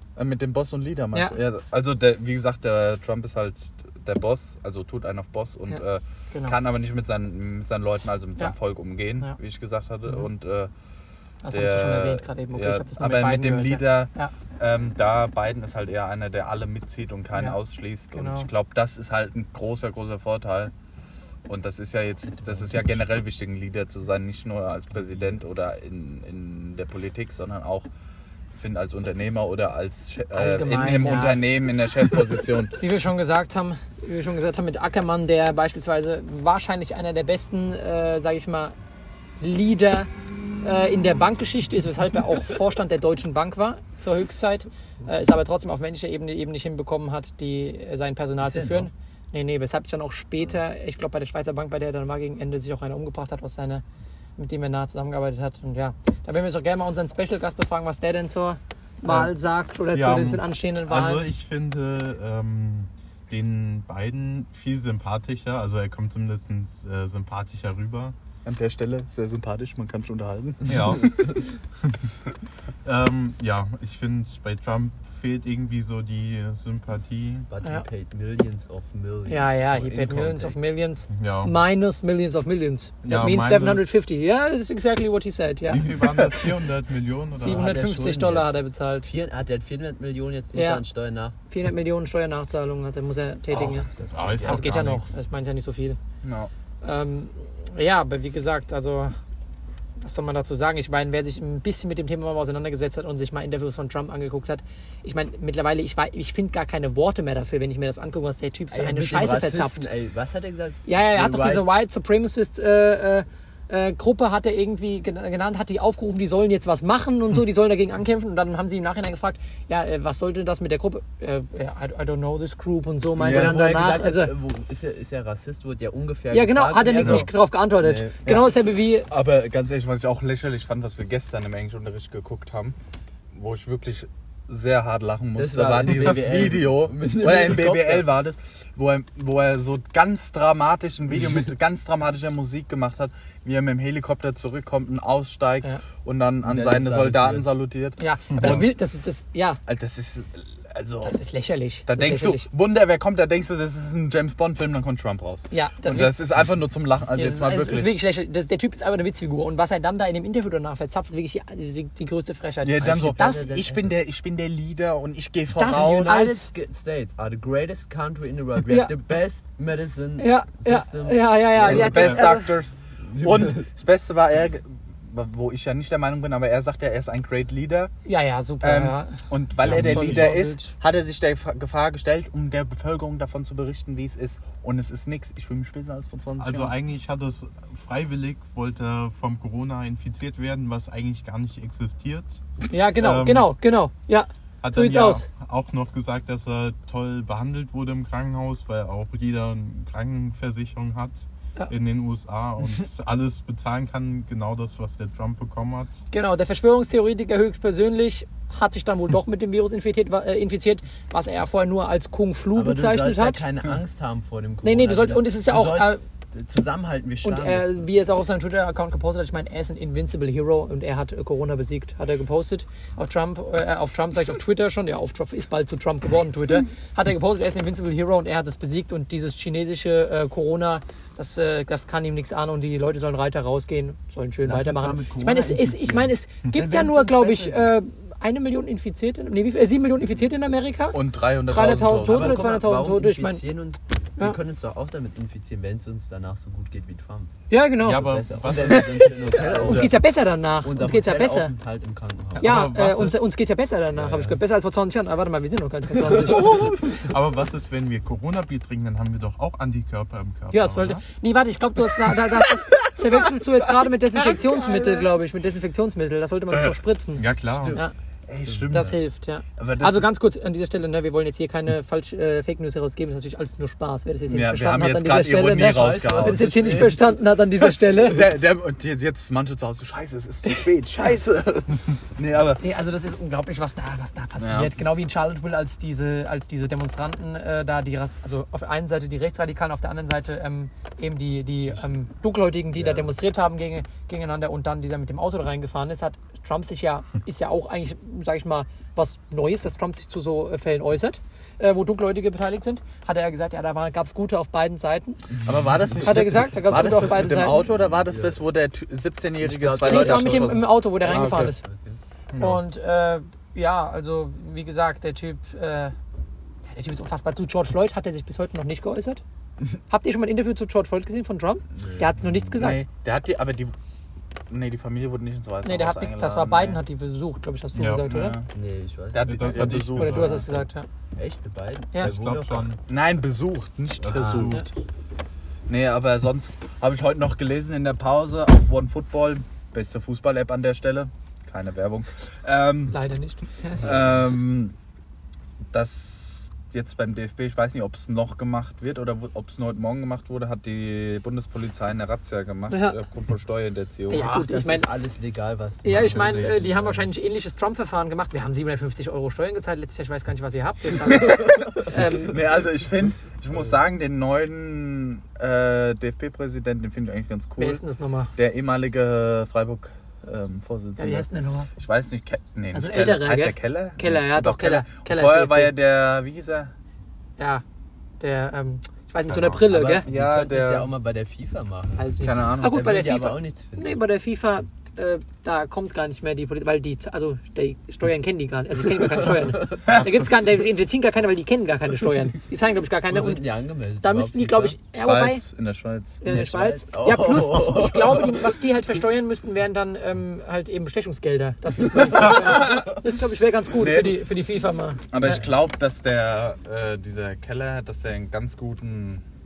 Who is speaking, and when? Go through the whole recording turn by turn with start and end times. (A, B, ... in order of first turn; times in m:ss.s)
0:00.2-0:10.7 A
0:11.4-0:14.3 B
0:11.5-0:20.7 A
0:18.1-0:18.5 B
0:21.5-0:27.9 A
0:22.3-0:23.0 C
0:28.5-0:32.8 A
0:30.3-0:31.4 B
0:32.8-0:38.7 B
0:39.4-0:40.1 B
0:40.6-0:53.8 B
0:48.4-0:48.9 C
0:54.4-1:01.2 B
0:59.0-0:59.3 D
0:59.9-1:08.2 D
1:08.4-1:11.3 A
1:10.7-1:11.3 D
1:12.8-1:17.5 D
1:17.5-1:20.6 C
1:19.3-1:26.0 B
1:21.1-1:21.6 D
1:23.0-1:24.1 D
1:25.7-1:27.7 D
1:27.3-1:29.1 B
1:27.4-1:31.4 C
1:30.5-1:30.8 B
1:31.5-1:33.9 B
1:33.5-1:34.8 C
1:34.1-1:35.0 D
1:34.4-1:36.0 B
1:36.2-1:36.5 A
1:36.8-1:39.2 B
1:40.0-1:49.8 B
1:48.7-1:51.7 C
1:50.8-2:04.3 B
2:03.2-2:03.6 A
2:03.2-2:08.4 C
2:06.3-2:09.1 B
2:07.0-2:07.3 D
2:08.2-2:12.8 A
2:13.3-2:28.8 A
2:15.4-2:18.1 C
2:26.4-2:27.5 C
2:28.0-2:29.6 B
2:28.3-2:28.6 D
2:29.7-2:31.2 A
2:31.0-2:32.5 B
2:31.9-2:38.0 A
2:35.5-2:36.2 B
2:37.2-2:43.4 B
2:42.6-2:46.3 A
2:42.8-2:44.0 C
2:45.6-2:46.5 B
2:45.6-2:52.2 C
2:48.7-2:48.9 B
2:50.2-2:52.5 B
2:51.6-2:57.9 A
2:51.9-2:52.3 D
2:53.1-2:53.7 C
2:58.0-3:00.7 B
2:58.6-3:06.7 A
2:59.6-3:00.4 D
3:06.4-3:12.4 D
3:12.7-3:15.3 B
3:12.9-3:13.5 D
3:14.6-3:25.9 D
3:26.1-3:33.4 B
3:32.5-3:37.9 C
3:34.6-3:36.0 B
3:37.2-4:03.4 B
3:54.4-3:57.7 C
4:00.9-4:02.4 A
4:02.0-4:07.3 C
4:07.5-4:08.2 B
4:07.8-4:09.9 D
4:07.8-4:10.0 C
4:09.6-4:11.5 B
4:10.6-4:12.7 C
4:12.4-4:17.0 B
4:12.4-4:13.3 D
4:14.0-4:14.4 D
4:16.2-4:21.0 D
4:20.5-4:27.9 B
4:24.2-4:25.1 A
4:27.1-4:27.8 D
4:27.5-4:27.8 C
4:27.7-4:29.0 A
4:28.4-4:28.8 C
4:28.7-4:38.2 B
4:29.6-4:30.1 A
4:34.3-4:36.9 A
4:35.5-4:37.2 C
4:37.8-4:42.6 A
4:42.6-5:05.2 B
4:44.4-4:44.7 A
4:52.8-4:53.1 C
5:05.4-5:11.5 A
5:06.0-5:07.6 B
5:07.8-5:08.4 C
5:09.4-5:12.0 C
5:09.8-5:11.6 B
5:12.3-5:12.6 D
5:12.4-5:16.0 B
5:16.7-5:19.2 B
5:19.9-5:22.8 B
5:21.7-5:22.6 C
5:22.6-5:23.7 A
5:24.5-5:26.8 A
5:25.6-5:28.4 B
5:27.7-5:28.0 D
5:28.0-5:28.5 A
5:28.5-5:29.6 C
5:29.1-5:30.5 A
5:29.2-5:30.5 D
5:29.6-5:30.9 B
5:31.1-5:32.7 C
5:32.0-5:32.8 D
5:32.9-5:34.7 A
5:34.0-5:34.6 D
5:35.7-5:43.0 A
5:42.9-5:43.9 B
5:43.8-5:44.8 A
5:45.7-5:54.2 A
5:52.7-5:53.0 B
5:54.1-5:54.9 B
5:54.1-5:57.2 C
5:55.8-6:02.4 B
5:55.9-5:56.4 D
6:01.1-6:07.8 A
6:07.6-6:08.3 B
6:08.4-6:16.7 A
6:11.0-6:11.7 B
6:12.7-6:15.7 B
6:17.4-6:17.6 B
6:18.2-6:20.0 B
6:19.3-6:19.7 D
6:19.7-6:24.0 C
6:20.0-6:20.9 A
6:22.0-6:33.4 B
6:22.2-6:22.9 A
6:29.5-6:29.8 C
6:33.1-6:34.8 C
6:34.0-6:35.4 B
6:35.0-6:36.2 A
6:36.2-6:45.4 B
6:36.2-6:38.5 C
6:42.2-6:43.0 A
6:43.8-6:44.2 A
6:45.1-6:49.2 A